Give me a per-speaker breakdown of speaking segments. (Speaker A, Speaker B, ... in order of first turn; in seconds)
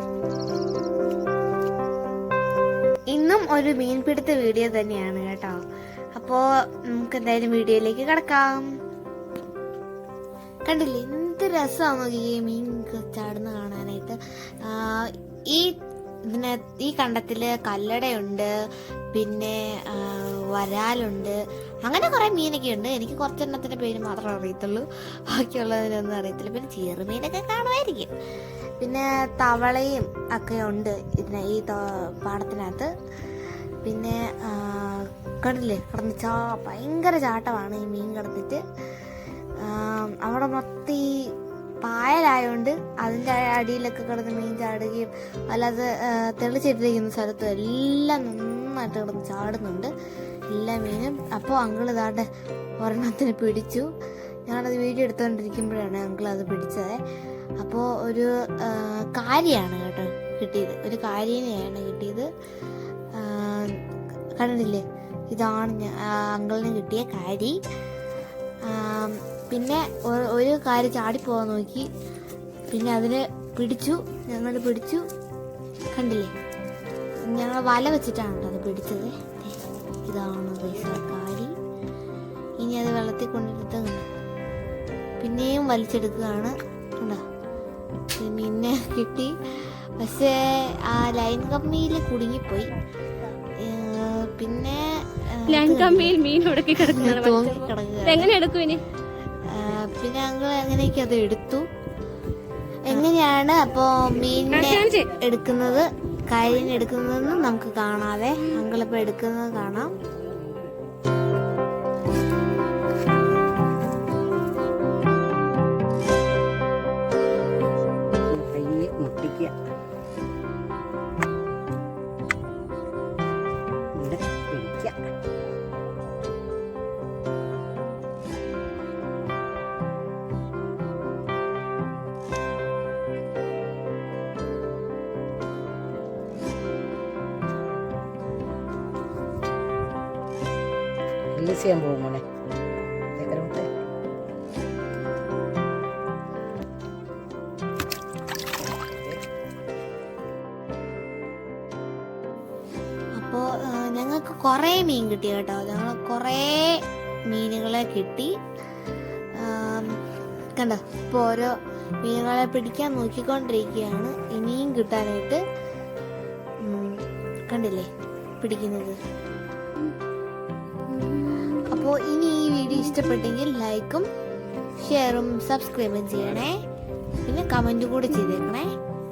Speaker A: 3.1-5.6, 6.2-8.8, 10.7-18.5, 19.1-28.1, 28.8-32.9, 33.8-38.6, 39.6-49.9, 50.5-52.3, 52.8-53.9, 54.5-57.0, 57.6-62.3, 63.1-63.8, 64.4-67.6, 68.7-71.9, 72.7-75.1, 75.9-76.3, 77.2-81.5, 82.6-84.1, 85.2-87.2, 88.2-92.8, 93.6-96.2, 96.7-98.4, 99.4-101.7, 102.9-110.0, 153.2-158.3, 159.4-160.0, 160.6-165.4, 166.6-167.9, 168.4-169.0, 171.5-174.1, 174.8-176.6, 177.2-178.7
Speaker B: 95.5-98.8, 104.5-105.1, 170.9-171.6
Speaker C: 118.2-119.5, 124.0-125.1, 141.3-142.2, 143.2-143.7